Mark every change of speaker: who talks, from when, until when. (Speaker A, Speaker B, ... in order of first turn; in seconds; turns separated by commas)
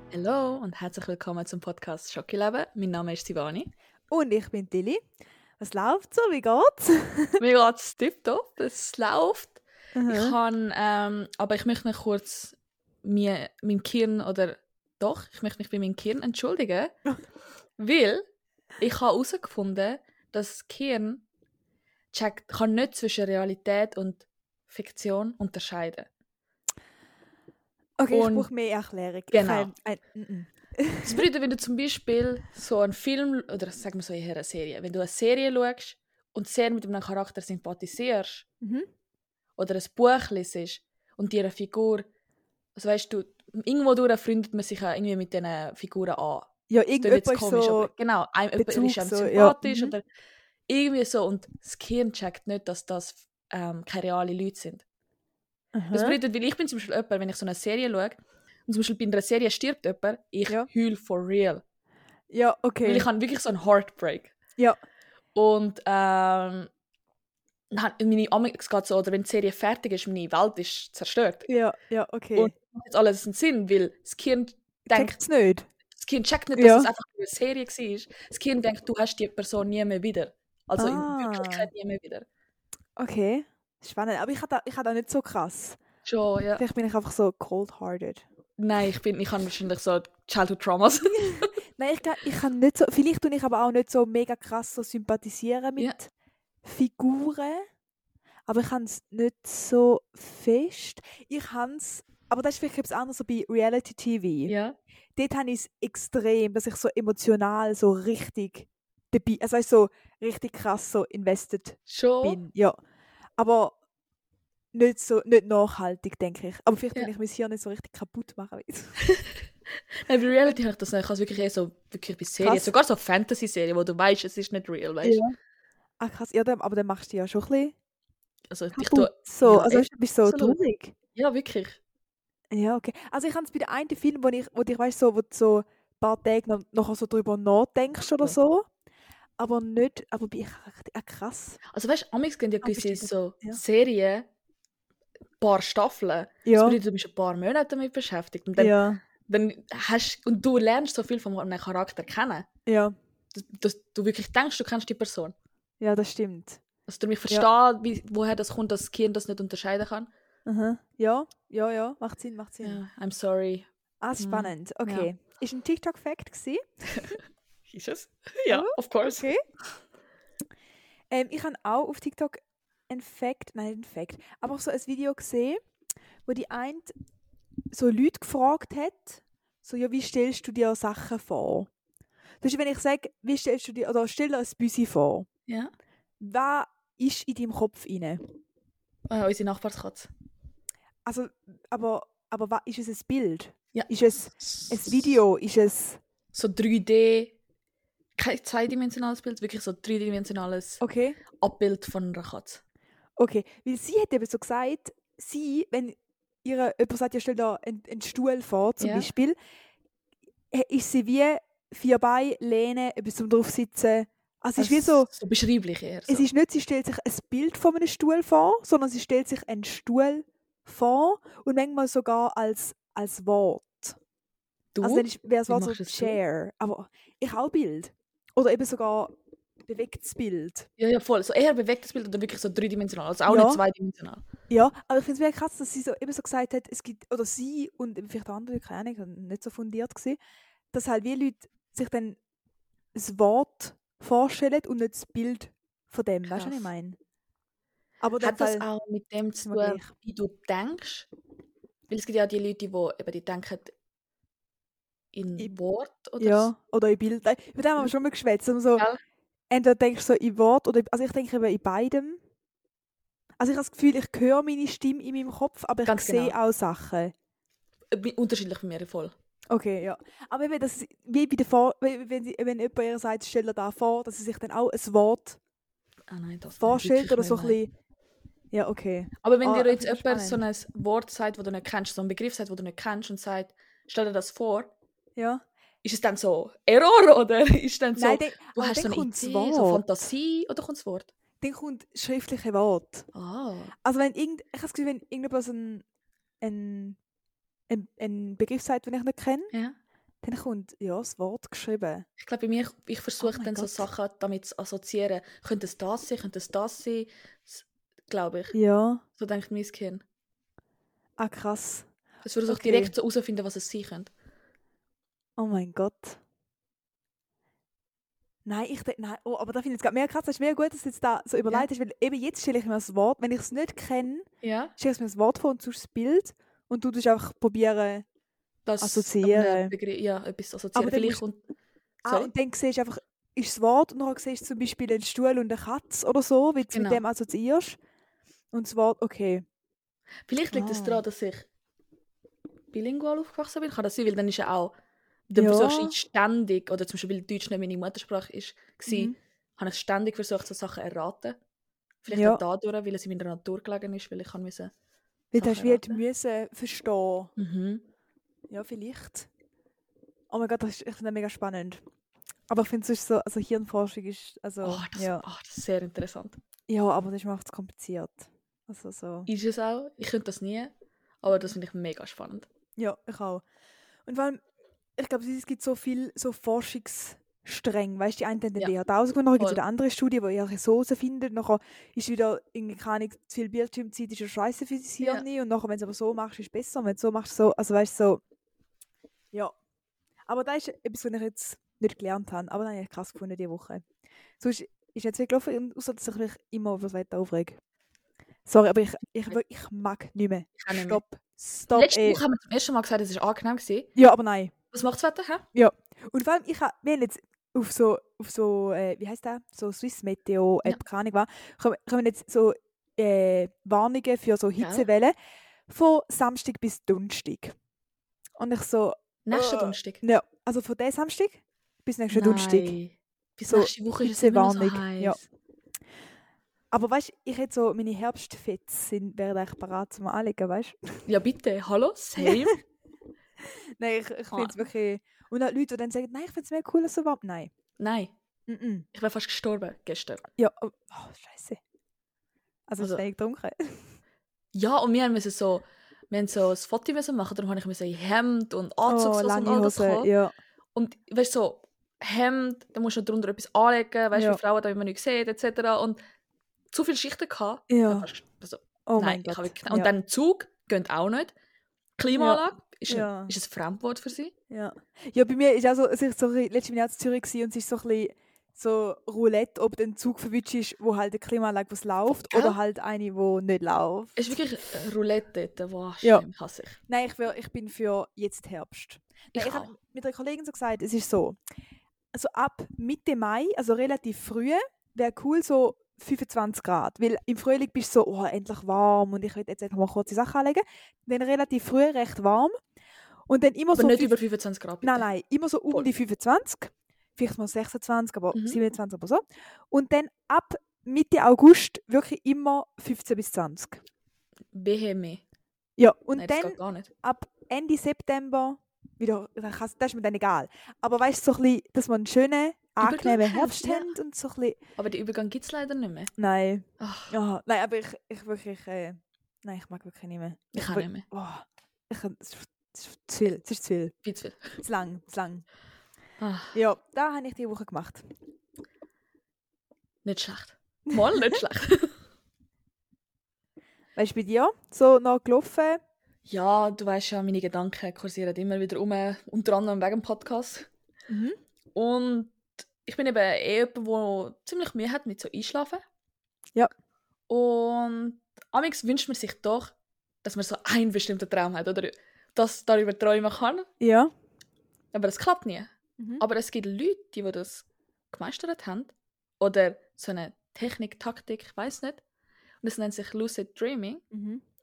Speaker A: 0.1-3.7, Speaker B: 4.1-5.0, Speaker B: 5.6-7.4, Speaker A: 7.4-16.9, Speaker B: 9.9-10.4, Speaker A: 17.8-18.2, Speaker A: 18.8-21.2, Speaker A: 22.1-26.1, Speaker B: 28.0-31.2, Speaker A: 28.1-28.5, Speaker A: 29.3-29.7, Speaker A: 31.0-38.4, Speaker B: 38.6-38.9, Speaker A: 39.6-42.0, Speaker A: 42.8-50.0, Speaker B: 46.7-47.9, Speaker B: 48.5-49.9, Speaker A: 50.7-54.8, Speaker B: 55.8-56.2, Speaker A: 55.9-61.6, Speaker B: 62.3-63.1, Speaker A: 62.8-64.3, Speaker A: 65.3-66.7, Speaker A: 67.7-71.5, Speaker B: 71.5-72.5, Speaker A: 72.3-75.2, Speaker B: 74.9-75.7, Speaker A: 75.9-82.2, Speaker B: 76.5-76.9, Speaker B: 80.8-81.7, Speaker B: 83.0-85.8, Speaker A: 86.0-86.6, Speaker B: 86.6-88.2, Speaker A: 88.6-91.5, Speaker B: 91.3-96.1, Speaker B: 96.6-97.7, Speaker B: 98.5-104.5, Speaker A: 104.5-104.8, Speaker B: 105.2-112.8, Speaker A: 111.9-112.4, Speaker B: 113.4-113.7, Speaker B: 114.7-119.0, Speaker A: 119.1-119.4, Speaker A: 120.0-125.2, Speaker B: 122.4-122.7, Speaker B: 125.0-125.4, Speaker B: 126.0-127.7, Speaker A: 128.5-130.6, Speaker B: 128.8-130.9, Speaker A: 131.2-131.8, Speaker B: 132.5-138.7, Speaker B: 139.4-141.6, Speaker A: 141.7-144.3, Speaker B: 142.6-143.6, Speaker A: 145.4-152.5, Speaker B: 146.4-146.8, Speaker B: 148.6-149.0, Speaker B: 152.7-152.9, Speaker A: 153.3-155.3, Speaker B: 155.8-156.6, Speaker A: 156.9-160.1, Speaker B: 160.5-162.8, Speaker A: 162.6-165.1, Speaker B: 164.0-167.2, Speaker A: 167.7-169.3, Speaker B: 168.5-169.4, Speaker B: 171.1-175.6, Speaker B: 176.3-176.9, Speaker B: 177.7-181.7, Speaker B: 182.4-185.3, Speaker A: 185.5-185.7, Speaker B: 186.2-188.2, Speaker A: 189.1-190.1, Speaker B: 191.1-196.0, Speaker A: 194.4-195.2, Speaker A: 196.3-197.3, Speaker A: 198.2-200.8, Speaker B: 200.8-201.2, Speaker A: 201.4-202.6, Speaker B: 203.2-209.4, Speaker A: 208.8-209.1, Speaker B: 210.5-215.1, Speaker A: 214.6-216.3, Speaker B: 216.1-224.0, Speaker A: 224.8-226.2, Speaker B: 224.8-229.1, Speaker B: 229.7-230.7, Speaker A: 230.8-234.2, Speaker B: 233.3-233.6, Speaker B: 234.5-240.2, Speaker B: 240.7-242.2, Speaker B: 242.9-247.0, Speaker A: 246.3-246.7, Speaker B: 248.0-248.7, Speaker A: 248.2-251.1, Speaker B: 249.4-249.9, Speaker A: 251.9-253.7, Speaker A: 255.1-256.5, Speaker B: 256.2-258.8, Speaker B: 259.5-262.2, Speaker B: 263.4-267.1, Speaker A: 265.9-266.3, Speaker A: 267.9-269.1, Speaker B: 269.5-275.4, Speaker A: 276.1-277.6, Speaker B: 276.6-277.7, Speaker B: 278.5-280.4, Speaker A: 279.2-284.7, Speaker B: 285.1-285.4, Speaker A: 285.8-291.1, Speaker B: 287.9-289.9, Speaker B: 291.4-293.1, Speaker A: 293.1-293.7, Speaker B: 293.8-295.8, Speaker B: 296.4-297.0, Speaker B: 297.7-299.5, Speaker B: 300.2-302.1, Speaker A: 302.2-308.5, Speaker B: 303.2-303.9, Speaker B: 308.5-309.0, Speaker A: 309.2-310.0, Speaker B: 311.2-311.9, Speaker A: 312.2-314.1, Speaker B: 312.5-312.9, Speaker B: 315.4-316.2, Speaker B: 318.4-328.0, Speaker A: 324.4-324.7, Speaker A: 328.6-331.4, Speaker B: 328.8-329.7, Speaker B: 330.8-331.2, Speaker B: 332.0-337.8, Speaker A: 336.7-337.0, Speaker B: 338.5-339.4, Speaker A: 340.3-341.5, Speaker B: 340.5-341.0, Speaker A: 342.7-344.7, Speaker A: 345.3-351.4, Speaker B: 345.4-345.9, Speaker B: 348.9-349.2, Speaker A: 352.0-354.7, Speaker B: 352.1-352.4, Speaker B: 355.3-357.3, Speaker A: 355.3-356.0, Speaker A: 357.4-357.8, Speaker B: 358.5-359.3, Speaker B: 360.3-361.8, Speaker B: 362.5-365.2, Speaker A: 364.6-366.4, Speaker B: 366.7-369.3, Speaker A: 369.3-372.5, Speaker B: 372.8-373.4, Speaker B: 374.1-374.4, Speaker B: 375.0-388.2, Speaker B: 390.3-393.8, Speaker B: 394.4-397.6, Speaker B: 398.4-402.2, Speaker A: 400.6-401.0, Speaker A: 401.7-403.9, Speaker B: 403.9-404.5, Speaker A: 404.7-405.4, Speaker B: 405.5-415.1, Speaker A: 414.6-414.9, Speaker B: 415.7-417.5, Speaker B: 418.4-422.8, Speaker A: 419.2-420.0, Speaker A: 422.1-425.2, Speaker B: 423.5-425.2, Speaker B: 426.7-431.0, Speaker A: 431.1-432.5, Speaker B: 432.2-432.6, Speaker B: 433.4-437.5, Speaker A: 434.3-434.6, Speaker A: 437.8-438.1, Speaker B: 438.5-438.9, Speaker A: 438.9-440.2, Speaker B: 440.4-441.6, Speaker B: 442.7-443.9, Speaker A: 444.5-450.1, Speaker B: 448.9-450.3, Speaker A: 450.8-456.0, Speaker B: 454.1-454.4, Speaker A: 456.7-461.3, Speaker B: 457.7-458.1, Speaker B: 458.9-459.9, Speaker A: 462.0-464.3, Speaker B: 462.1-463.3, Speaker B: 464.5-474.3, Speaker A: 472.2-472.6, Speaker A: 474.2-476.8, Speaker B: 476.9-481.4, Speaker A: 479.3-479.7, Speaker B: 482.1-492.6, Speaker B: 493.3-494.1, Speaker A: 493.8-495.1, Speaker B: 494.8-503.8, Speaker A: 498.3-498.6, Speaker A: 504.5-505.2, Speaker B: 505.8-514.6, Speaker A: 506.1-506.9, Speaker A: 512.8-513.9, Speaker A: 514.8-516.1, Speaker B: 516.2-523.9, Speaker A: 516.8-517.1, Speaker A: 520.5-521.0, Speaker A: 524.0-524.5, Speaker B: 524.6-525.4, Speaker A: 526.2-526.5, Speaker B: 526.5-528.0, Speaker A: 530.0-531.9, Speaker B: 530.9-531.4, Speaker B: 534.0-535.8, Speaker A: 536.2-540.7, Speaker B: 541.1-541.4, Speaker A: 541.8-545.8, Speaker A: 547.3-553.7, Speaker B: 553.8-554.1, Speaker A: 554.9-562.0, Speaker A: 562.6-564.0, Speaker B: 564.1-564.4